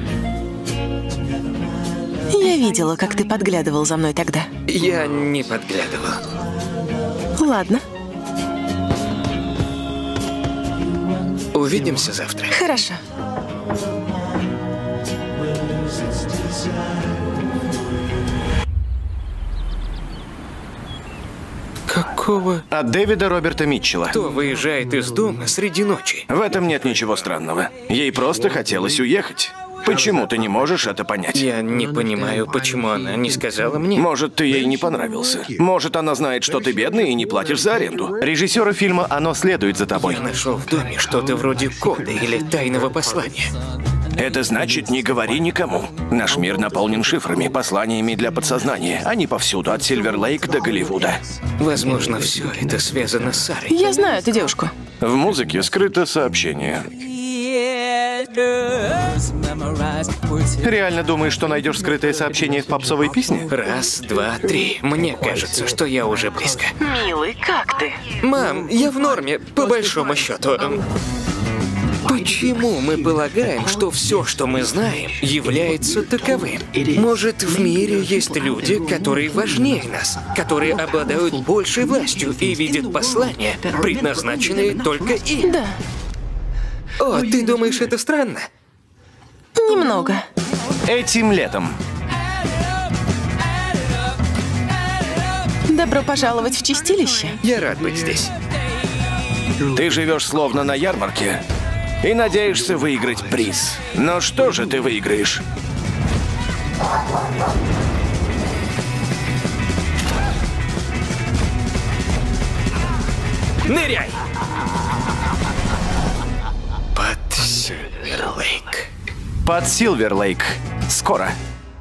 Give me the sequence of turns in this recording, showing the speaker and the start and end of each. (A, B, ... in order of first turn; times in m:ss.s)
0:02.3-0:04.5 A
0:04.7-0:06.2 B
0:07.4-0:07.8 A
0:11.5-0:12.6 B
0:12.5-0:13.0 A
0:21.9-0:22.6 B
0:22.7-0:24.2 C
0:24.1-0:26.3 B
0:26.3-0:31.4 C
0:31.3-0:34.0 B
0:33.9-0:40.2 C
0:39.9-0:43.5 B
0:44.2-0:51.2 C
0:51.6-0:53.8 B
0:53.7-0:54.7 A
0:55.0-0:56.9 C
0:57.5-0:58.7 B
1:00.6-1:03.5 C
1:03.5-1:06.8 B
1:06.8-1:08.0 A
1:08.2-1:10.8 B
1:12.0-1:25.6 B
1:25.4-1:25.8 A
1:27.0-1:28.4 B
1:29.6-1:30.2 A
1:30.8-1:31.7 C
1:35.7-1:37.4 A
1:37.4-1:38.3 B
1:39.6-1:41.4 C
1:42.0-1:45.4 C
1:53.6-1:54.2 B
1:56.9-1:58.8 B
1:59.4-2:01.3 C